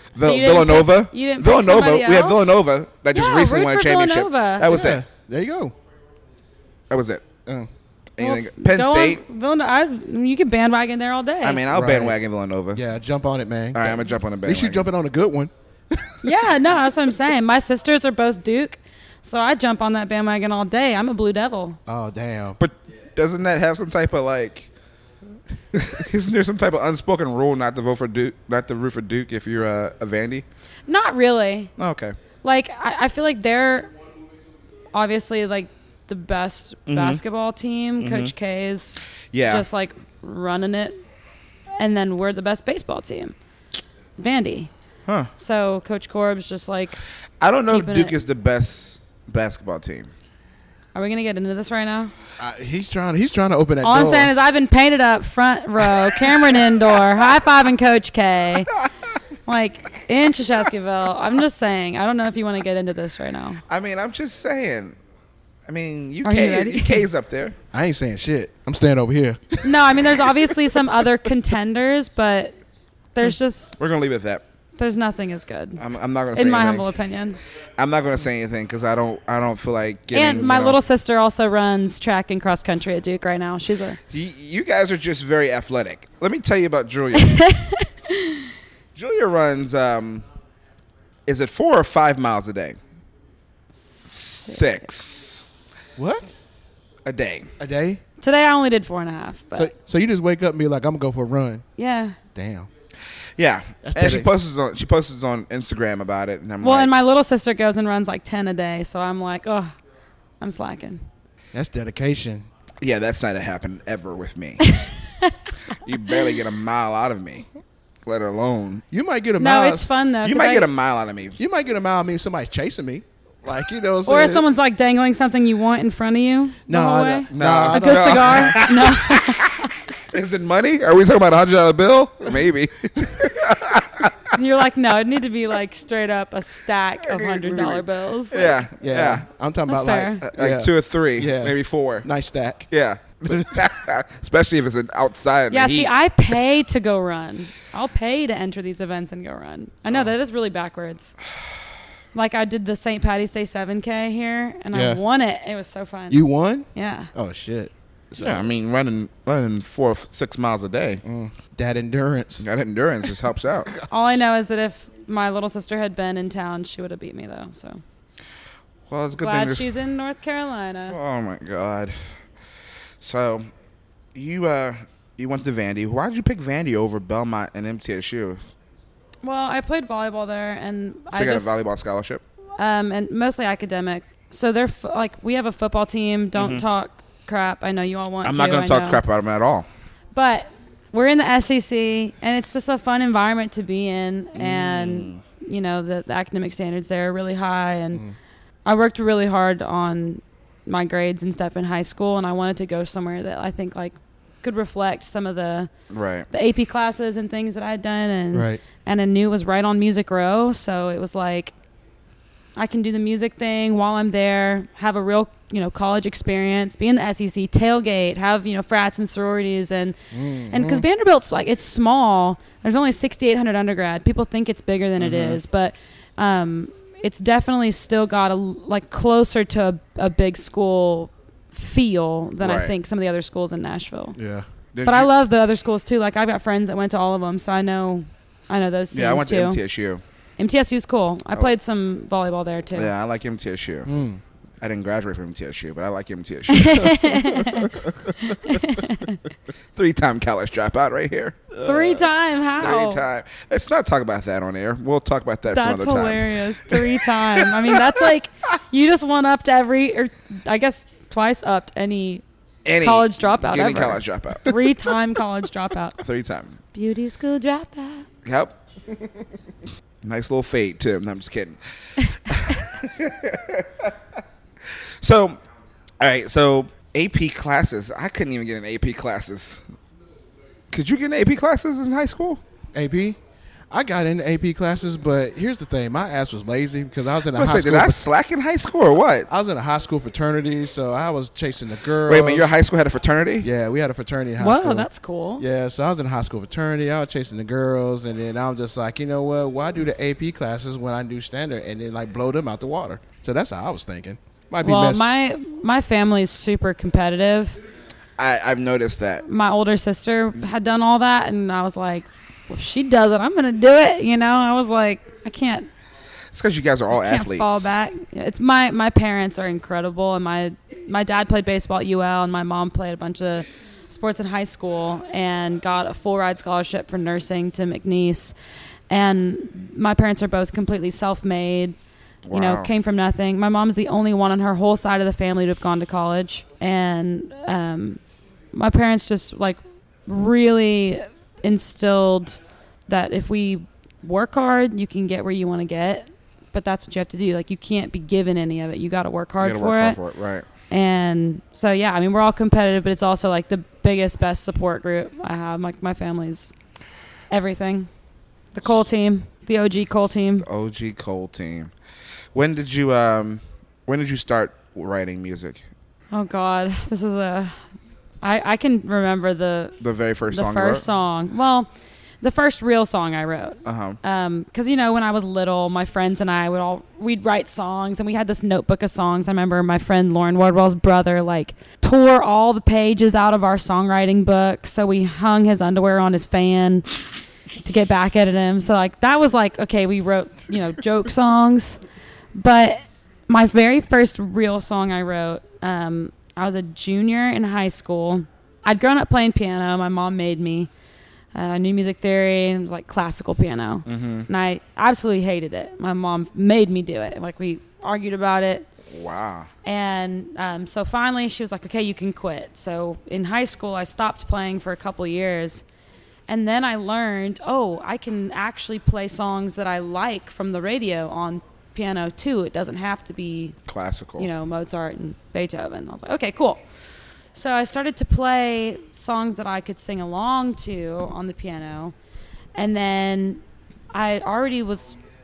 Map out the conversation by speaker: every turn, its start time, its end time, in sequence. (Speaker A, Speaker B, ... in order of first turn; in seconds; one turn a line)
Speaker A: 0.1-5.0
Speaker B: 0.2-2.6
Speaker B: 3.1-4.8
Speaker C: 4.7-5.7
Speaker A: 6.9-7.2
Speaker C: 7.5-7.7
Speaker A: 8.2-9.2
Speaker B: 8.2-11.6
Speaker A: 11.4-12.8
Speaker C: 11.7-12.2
Speaker C: 12.7-16.2
Speaker A: 13.7-14.9
Speaker B: 16.2-21.8
Speaker C: 21.9-22.6
Speaker A: 22.6-24.7
Speaker A: 25.7-30.4
Speaker B: 30.9-31.7
Speaker A: 31.8-32.2
Speaker B: 32.4-33.9
Speaker B: 34.9-41.0
Speaker A: 36.9-37.2
Speaker A: 38.0-38.3
Speaker A: 39.3-39.6
Speaker B: 41.8-43.3
Speaker B: 44.2-44.7
Speaker B: 45.4-47.0
Speaker A: 47.4-50.1
Speaker B: 47.7-48.2
Speaker B: 50.9-52.1
Speaker C: 52.4-54.3
Speaker B: 53.8-58.7
Speaker B: 59.5-63.6
Speaker A: 63.7-64.9
Speaker A: 65.7-67.6
Speaker B: 66.2-67.0
Speaker C: 67.7-70.8
Speaker B: 69.6-72.5
Speaker B: 73.1-73.7
Speaker A: 73.8-74.4
Speaker B: 74.8-75.8
Speaker A: 75.8-76.8
Speaker B: 76.3-77.4
Speaker A: 77.8-80.8
Speaker B: 80.1-84.0
Speaker A: 84.1-87.5
Speaker B: 87.2-88.5
Speaker A: 88.9-90.2
Speaker A: 91.3-92.8
Speaker B: 93.8-94.7
Speaker A: 94.0-95.5
Speaker C: 96.0-96.3
Speaker A: 97.0-97.5
Speaker C: 97.6-98.0
Speaker B: 98.2-99.7
Speaker C: 99.5-101.6
Speaker B: 101.8-102.2
Speaker C: 102.3-102.7
Speaker A: 103.4-106.9
Speaker C: 103.8-104.3
Speaker B: 106.6-109.7
Speaker B: 110.4-111.0
Speaker C: 111.5-112.5
Speaker A: 112.8-114.7
Speaker B: 114.6-115.5
Speaker A: 115.7-117.5
Speaker A: 118.0-118.8
Speaker C: 118.9-119.9
Speaker B: 119.4-120.7
Speaker A: 120.2-121.4
Speaker C: 121.4-124.4
Speaker B: 124.0-129.8
Speaker C: 126.7-128.6
Speaker A: 127.3-134.3
Speaker B: 134.3-138.6
Speaker A: 137.0-139.2
Speaker C: 138.8-142.7
Speaker B: 139.7-140.2
Speaker A: 140.3-142.1
Speaker A: 142.7-145.9
Speaker B: 145.5-151.2
Speaker B: 152.1-156.2
Speaker C: 154.7-155.0
Speaker C: 156.1-158.5
Speaker B: 156.7-157.1
Speaker A: 158.2-161.0
Speaker C: 161.0-162.4
Speaker A: 162.4-163.7
Speaker B: 163.8-167.8
Speaker A: 168.9-169.7
Speaker B: 169.2-171.0
Speaker A: 170.9-171.9
Speaker A: 173.0-173.5
Speaker A: 174.1-178.5
Speaker B: 179.2-181.6
Speaker A: 181.1-182.2
Speaker B: 182.6-189.0
Speaker A: 186.3-186.6
Speaker A: 188.2-189.7
Speaker B: 190.1-198.0
Speaker A: 194.3-195.2
Speaker B: 198.6-205.7
Speaker A: 205.9-206.3
Speaker B: 206.3-211.5
Speaker C: 208.3-208.6
Speaker B: 212.6-220.0
Speaker C: 220.1-220.8
Speaker B: 220.5-234.2
Speaker A: 225.0-225.4
Speaker A: 232.4-232.7
Speaker C: 234.2-234.5
Speaker A: 234.7-235.1
Speaker B: 234.8-239.6
Speaker A: 238.9-240.0
Speaker B: 240.4-242.9
Speaker A: 242.8-243.9
Speaker C: 243.8-244.2
Speaker A: 244.6-247.1
Speaker B: 246.5-249.2
Speaker C: 247.4-248.1
Speaker A: 249.7-251.5
Speaker C: 251.5-252.0
Speaker B: 251.6-253.0
Speaker A: 252.6-257.9
Speaker B: 255.5-262.2
Speaker A: 262.6-264.5
Speaker B: 262.8-266.0
Speaker A: 266.0-266.6
Speaker B: 266.7-268.1
Speaker A: 268.2-268.5
Speaker A: 270.0-273.9
Speaker A: 275.0-275.4
Speaker A: 276.0-279.6
Speaker A: 280.7-282.4
Speaker C: 282.7-283.2
Speaker C: 283.7-288.0
Speaker A: 287.3-289.3
Speaker C: 289.3-292.5
Speaker A: 292.1-293.5
Speaker C: 293.4-294.9
Speaker B: 294.4-295.4
Speaker C: 295.4-305.0
Speaker B: 304.6-307.6
Speaker A: 308.2-309.2
Speaker B: 309.2-315.7
Speaker A: 316.3-317.7
Speaker B: 316.9-328.3
Speaker B: 328.9-331.8
Speaker A: 332.2-332.7
Speaker B: 332.3-338.0
Speaker B: 338.5-350.0
Speaker A: 349.4-350.4
Speaker B: 350.7-356.5
Speaker B: 357.3-357.9
Speaker B: 358.5-360.4
Speaker A: 360.4-361.7
Speaker A: 362.3-365.6
Speaker B: 366.1-367.6
Speaker B: 368.2-369.7
Speaker A: 369.8-370.8
Speaker B: 370.3-371.7
Speaker B: 372.2-386.9
Speaker A: 373.6-374.0
Speaker B: 387.6-391.8
Speaker B: 392.3-400.7
Speaker B: 401.3-408.7
Speaker A: 403.9-404.3
Speaker A: 408.9-409.5
Speaker B: 409.6-415.6
Speaker B: 416.3-423.6
Speaker A: 423.7-424.3
Speaker B: 424.2-426.6
Speaker B: 427.3-431.9
Speaker B: 432.6-435.0